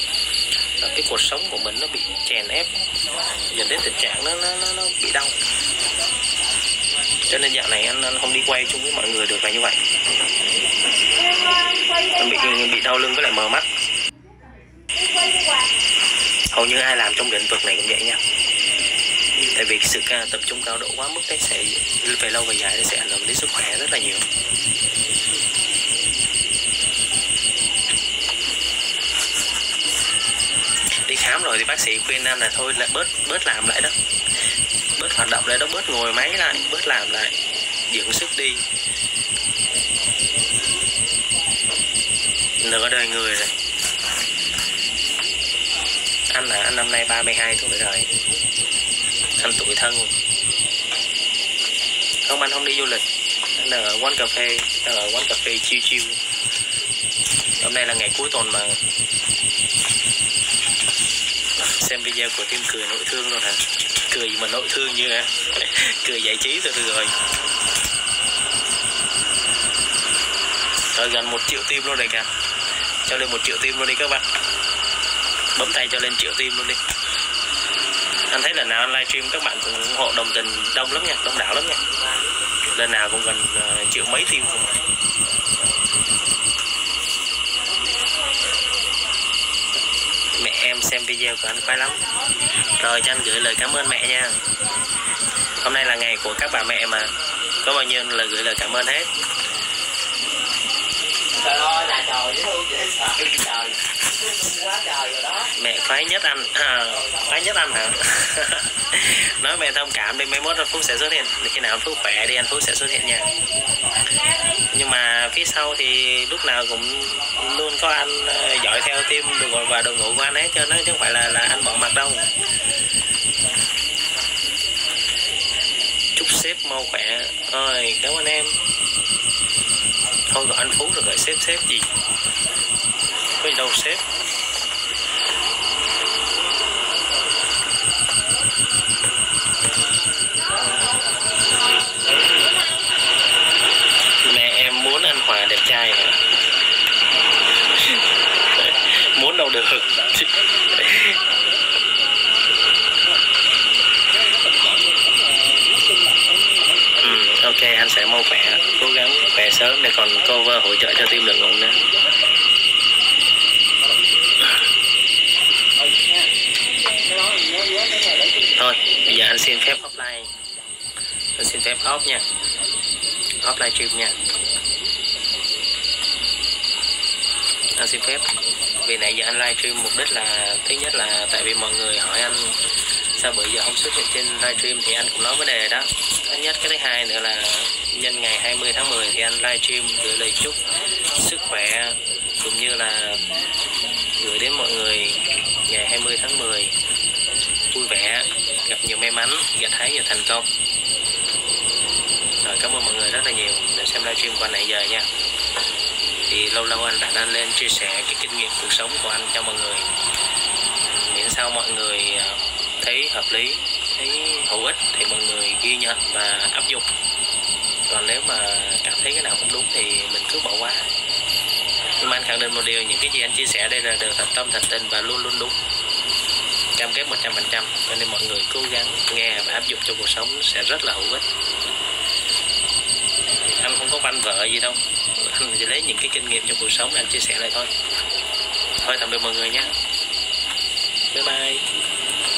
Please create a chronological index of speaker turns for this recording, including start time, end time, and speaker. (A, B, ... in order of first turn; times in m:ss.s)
0:00.8-0:02.7 A
0:03.5-0:05.3 A
0:07.3-0:09.8 A
0:12.1-0:13.7 A
0:16.5-0:18.2 A
0:19.5-0:24.2 A
0:31.1-0:33.9 A
0:35.0-0:37.4 A
0:37.9-0:38.6 A
0:42.6-0:43.5 A
0:46.3-0:48.1 A
0:49.4-0:50.1 A
0:52.2-0:53.0 A
0:53.5-0:56.2 A
0:57.6-0:58.8 A
1:01.7-1:07.1 A
1:10.9-1:12.3 A
1:13.0-1:14.2 A
1:15.5-1:16.8 A
1:18.3-1:21.8 A
1:22.7-1:24.7 A
1:30.4-1:32.0 A
1:32.7-1:34.4 A
1:35.6-1:37.1 A
1:37.6-1:39.1 A
1:45.5-1:53.3 A
1:54.7-2:02.3 A
2:06.2-2:08.6 A
2:10.3-2:11.9 A
2:13.4-2:14.0 A
2:24.2-2:26.2 A
2:28.6-2:31.2 A
2:37.0-2:41.8 A
2:48.6-2:50.3 A
2:51.4-2:52.2 A
2:53.4-2:54.2 A
2:57.8-3:02.6 A
3:03.1-3:10.6 A
3:11.1-3:13.2 A
3:14.1-3:16.7 A
3:17.7-3:20.5 A
3:22.4-3:25.1 A
3:26.3-3:29.9 A
3:30.9-3:36.9 A
3:37.9-3:40.9 A
3:42.0-3:45.5 A
3:46.8-3:51.2 A
3:53.6-3:57.7 A
3:58.8-3:59.7 A
4:01.1-4:01.6 A